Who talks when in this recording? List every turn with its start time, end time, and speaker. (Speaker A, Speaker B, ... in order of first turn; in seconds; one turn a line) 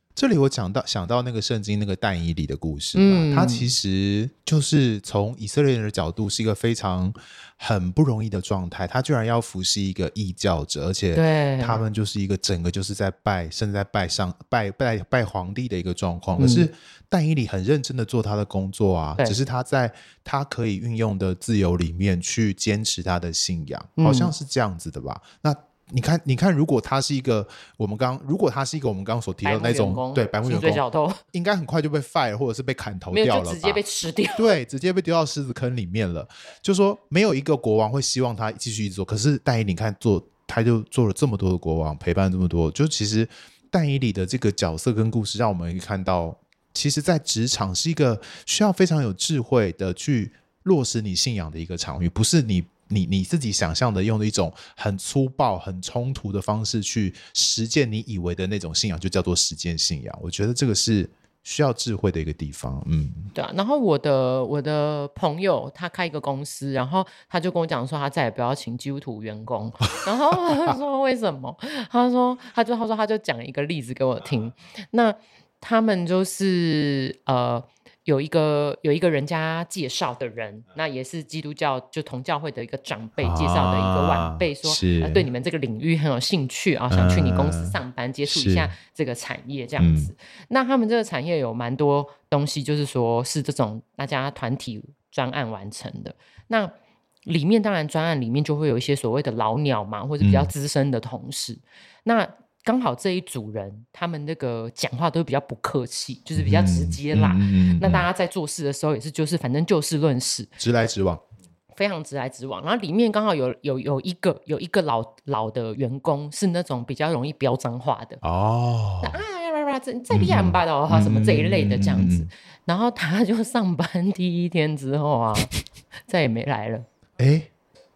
Speaker A: 0.1-33.8
Speaker B: 2.9-3.7
Speaker B: 11.1-11.8
Speaker B: 16.4-16.7
Speaker B: 24.0-24.3
Speaker B: 29.4-31.2
Speaker B: 33.1-34.5
Speaker A: 34.4-63.3
Speaker B: 63.3-96.7
Speaker A: 83.2-85.3
Speaker A: 86.9-88.7
Speaker A: 89.8-90.1
Speaker B: 97.2-110.5
Speaker A: 100.2-100.5
Speaker A: 106.3-108.1
Speaker A: 110.6-111.2
Speaker B: 111.7-118.2
Speaker A: 118.2-119.2
Speaker B: 119.0-125.5
Speaker A: 120.1-122.3
Speaker B: 126.1-126.8
Speaker A: 127.2-127.5